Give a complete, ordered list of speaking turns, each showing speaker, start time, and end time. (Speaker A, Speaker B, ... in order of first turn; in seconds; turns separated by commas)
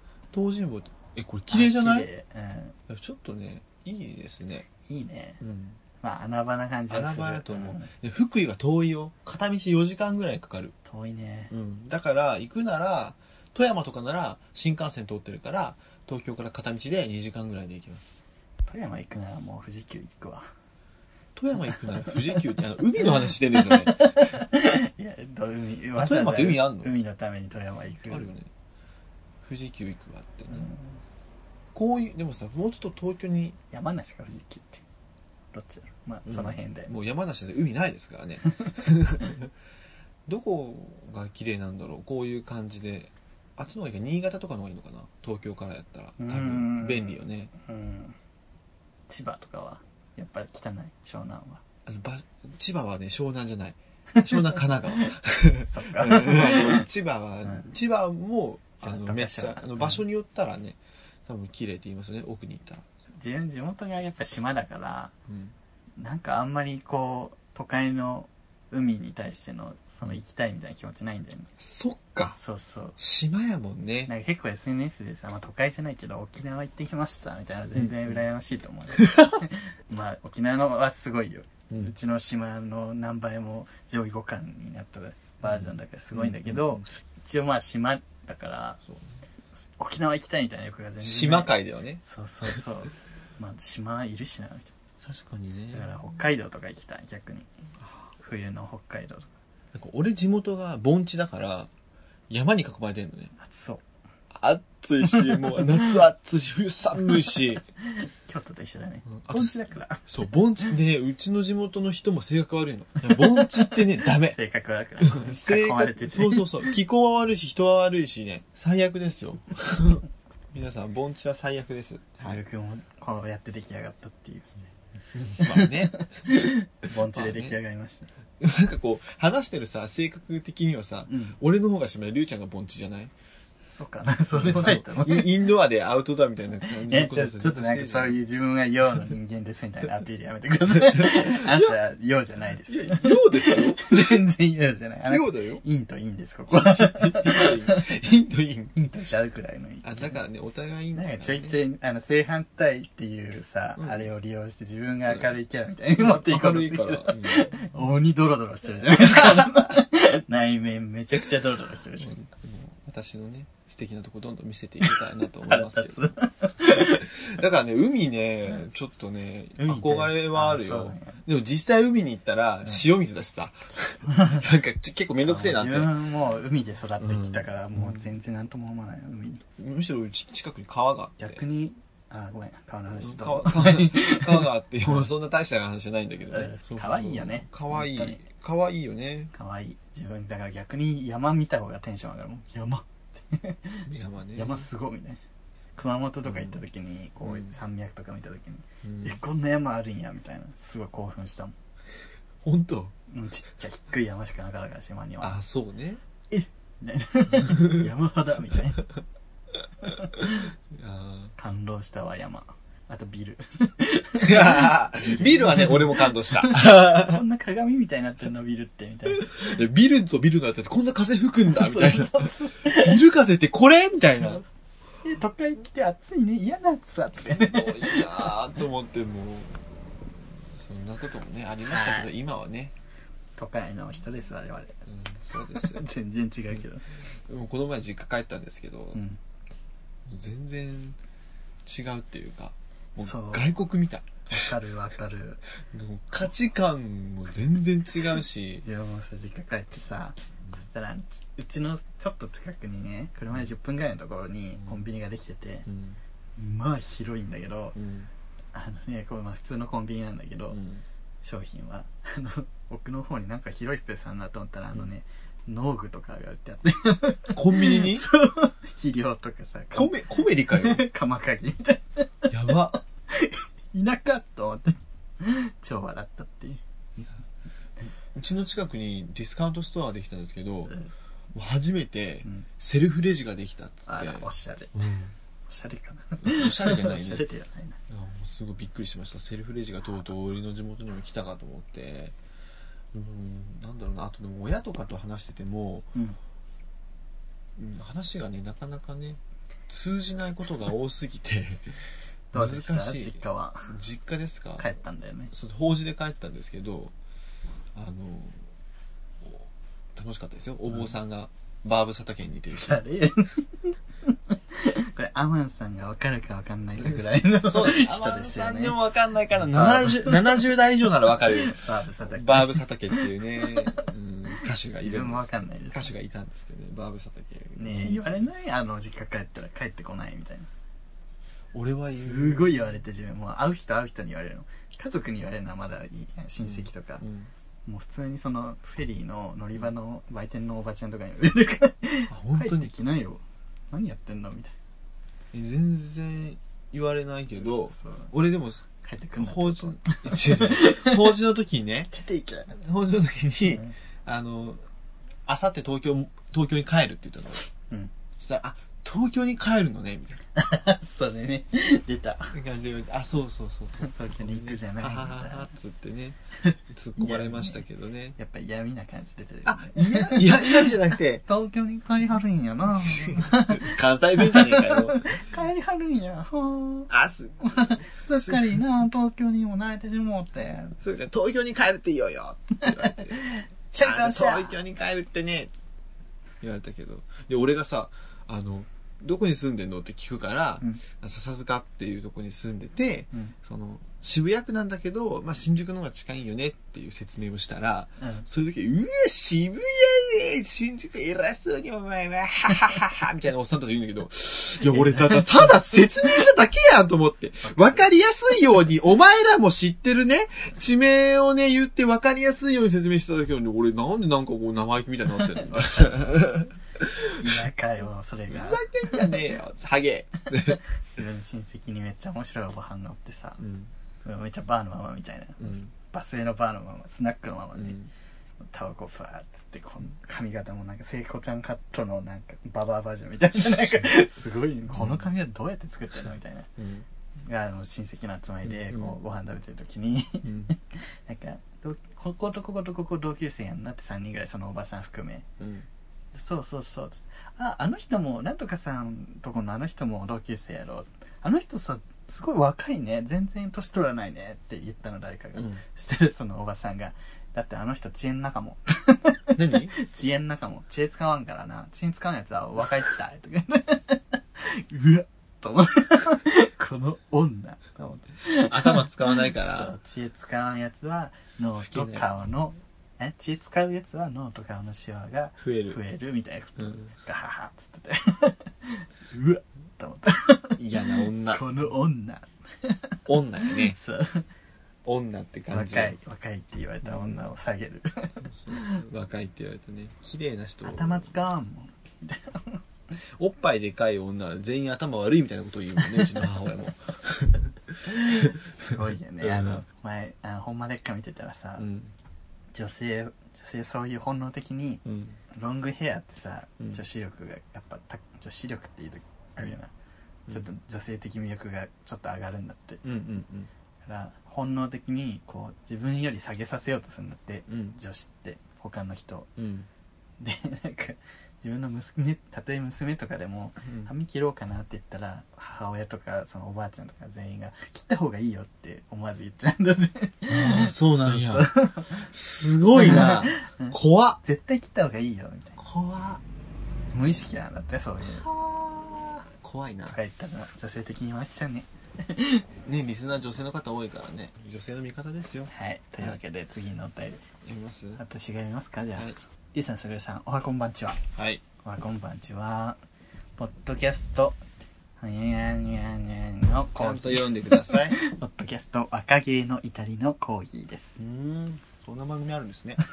Speaker A: 0.3-2.1, Speaker B: 1.5-2.8, Speaker A: 2.9-4.7, Speaker B: 4.8-5.4, Speaker A: 5.4-5.8, Speaker B: 6.0-7.9, Speaker A: 6.9-10.7, Speaker B: 10.8-11.5, Speaker A: 11.5-18.1, Speaker B: 18.6-20.4, Speaker A: 21.4-24.3, Speaker B: 21.7-22.4, Speaker B: 23.5-28.3, Speaker A: 25.9-26.9, Speaker A: 28.1-28.5, Speaker A: 29.4-30.7, Speaker B: 30.5-31.0, Speaker A: 31.7-33.6, Speaker B: 33.7-34.8, Speaker B: 35.5-36.9, Speaker A: 36.3-39.5, Speaker A: 40.3-47.5, Speaker B: 46.2-48.2, Speaker B: 49.1-51.6, Speaker A: 51.9-62.9, Speaker B: 54.1-56.9, Speaker B: 58.8-60.0, Speaker B: 63.2-65.1, Speaker A: 65.3-65.5, Speaker B: 66.0-71.5, Speaker A: 71.6-72.4, Speaker B: 72.3-73.0, Speaker A: 73.0-74.1, Speaker B: 74.1-88.8, Speaker A: 77.8-78.1, Speaker A: 79.0-79.3, Speaker A: 85.4-86.9, Speaker A: 88.9-89.2, Speaker B: 89.5-94.7, Speaker A: 91.0-92.0, Speaker A: 95.0-95.9, Speaker B: 95.7-97.5, Speaker A: 97.8-98.1, Speaker B: 98.2-99.4, Speaker A: 99.7-101.7, Speaker A: 102.3-103.3, Speaker B: 103.4-103.8, Speaker A: 104.3-107.6, Speaker B: 105.1-105.9, Speaker B: 107.9-110.0, Speaker A: 109.1-114.4, Speaker B: 113.0-116.7, Speaker A: 115.0-122.4, Speaker B: 122.2-124.7, Speaker A: 125.1-126.1, Speaker B: 125.4-128.1, Speaker A: 127.1-127.5, Speaker A: 128.4-133.1, Speaker B: 131.1-131.4, Speaker B: 133.7-135.3, Speaker A: 134.3-138.2, Speaker B: 136.8-147.8, Speaker A: 140.9-141.8, Speaker A: 142.7-143.9, Speaker A: 145.1-145.6, Speaker A: 146.5-148.7, Speaker B: 148.7-150.2, Speaker A: 149.8-151.6, Speaker B: 150.9-162.1, Speaker A: 153.8-154.0, Speaker A: 155.9-157.7, Speaker A: 162.0-166.0, Speaker B: 164.8-167.1, Speaker A: 166.8-175.9, Speaker B: 169.6-171.2, Speaker B: 174.1-174.4, Speaker B: 175.2-179.4, Speaker A: 177.0-178.1, Speaker A: 179.6-181.4, Speaker B: 181.2-185.1, Speaker A: 182.9-189.3, Speaker B: 186.3-188.2, Speaker B: 189.3-195.2, Speaker A: 193.9-194.7, Speaker B: 195.8-201.5, Speaker A: 196.2-196.6, Speaker A: 197.2-197.5, Speaker A: 198.8-199.2, Speaker A: 202.4-202.9, Speaker B: 203.1-205.4, Speaker A: 205.2-206.0, Speaker B: 206.3-208.8, Speaker A: 207.5-207.8, Speaker B: 209.8-210.5, Speaker A: 210.7-211.3, Speaker B: 211.4-219.6, Speaker A: 214.2-217.2, Speaker A: 219.1-224.4, Speaker B: 221.5-223.0, Speaker B: 225.0-228.3, Speaker A: 227.1-232.7, Speaker B: 231.7-232.1, Speaker B: 233.3-234.8, Speaker A: 234.9-235.9, Speaker B: 235.5-236.8, Speaker A: 237.2-239.0, Speaker B: 238.9-239.2, Speaker A: 240.1-241.0, Speaker A: 241.7-244.4, Speaker B: 243.0-243.4, Speaker B: 244.3-245.4, Speaker A: 245.7-248.6, Speaker B: 248.6-255.7, Speaker A: 254.6-254.8, Speaker A: 255.7-256.0, Speaker B: 256.4-257.8, Speaker A: 257.7-258.1, Speaker B: 258.5-260.6, Speaker A: 260.5-260.8, Speaker B: 261.2-277.0, Speaker A: 267.3-268.1, Speaker A: 269.7-270.8, Speaker A: 272.3-272.8, Speaker A: 278.1-280.8, Speaker A: 281.3-285.1, Speaker B: 283.9-284.7, Speaker B: 285.5-287.8, Speaker A: 286.2-287.2, Speaker A: 287.9-292.1, Speaker A: 292.9-295.9, Speaker A: 297.6-301.8, Speaker B: 302.3-303.7, Speaker A: 302.3-304.7, Speaker B: 304.6-305.3, Speaker A: 305.3-306.9, Speaker A: 307.7-308.4, Speaker A: 309.2-312.8, Speaker B: 312.5-318.8, Speaker A: 317.4-328.3, Speaker B: 319.5-320.5, Speaker B: 321.1-325.9, Speaker B: 327.6-330.5, Speaker A: 331.5-332.7, Speaker B: 331.9-337.0, Speaker A: 336.4-337.3, Speaker B: 337.6-344.5, Speaker A: 342.1-342.7, Speaker A: 345.3-351.9, Speaker B: 347.4-348.1, Speaker B: 348.8-351.1, Speaker B: 351.9-352.5, Speaker A: 352.5-354.6, Speaker B: 353.4-353.7, Speaker A: 355.3-357.5, Speaker A: 358.2-360.2, Speaker B: 360.4-362.3, Speaker A: 362.3-366.2, Speaker B: 363.8-365.5, Speaker B: 366.4-367.6, Speaker A: 366.7-368.2, Speaker B: 368.2-370.7, Speaker A: 369.4-371.2, Speaker B: 371.3-376.9, Speaker A: 372.7-375.1, Speaker A: 376.9-378.6, Speaker B: 377.4-380.8, Speaker A: 380.8-385.6, Speaker B: 382.6-384.6, Speaker A: 386.4-417.4, Speaker B: 398.0-398.2, Speaker B: 404.6-405.9, Speaker B: 407.4-407.8, Speaker B: 415.2-416.2, Speaker B: 417.2-419.2, Speaker A: 418.3-420.6, Speaker B: 420.3-423.4, Speaker A: 423.4-423.7, Speaker B: 424.0-427.8, Speaker A: 425.4-425.7, Speaker A: 427.6-427.9, Speaker B: 428.4-436.5, Speaker A: 434.7-435.1, Speaker A: 436.6-436.9, Speaker B: 437.2-445.3, Speaker A: 438.4-439.0, Speaker A: 440.2-440.5, Speaker A: 445.4-445.6, Speaker B: 446.1-484.3, Speaker A: 455.3-455.6, Speaker A: 459.4-459.7, Speaker A: 468.5-469.8, Speaker A: 471.6-472.1, Speaker A: 475.4-475.8, Speaker A: 476.6-476.9, Speaker A: 480.6-481.4, Speaker A: 483.1-483.8, Speaker A: 484.9-485.9, Speaker B: 485.5-488.7, Speaker A: 486.9-487.2, Speaker A: 488.2-491.1, Speaker B: 490.6-492.6, Speaker A: 493.2-499.6, Speaker B: 495.8-496.2, Speaker B: 497.9-501.6, Speaker A: 501.6-501.9, Speaker B: 502.5-509.7, Speaker A: 504.8-505.2, Speaker B: 510.3-512.8, Speaker A: 512.8-513.5, Speaker B: 513.8-519.3, Speaker A: 517.5-517.8, Speaker A: 519.4-519.7, Speaker B: 520.2-532.1, Speaker A: 523.6-523.9, Speaker A: 530.3-534.2, Speaker B: 532.7-535.6, Speaker A: 535.6-536.2, Speaker B: 536.9-538.2, Speaker A: 538.1-540.0, Speaker B: 539.9-542.4, Speaker A: 542.6-546.2, Speaker B: 545.5-547.2, Speaker A: 547.4-548.0, Speaker B: 548.0-551.0, Speaker A: 551.1-551.4, Speaker B: 551.6-552.8, Speaker B: 553.4-554.4, Speaker B: 555.0-561.0, Speaker A: 556.8-558.0, Speaker A: 561.0-562.8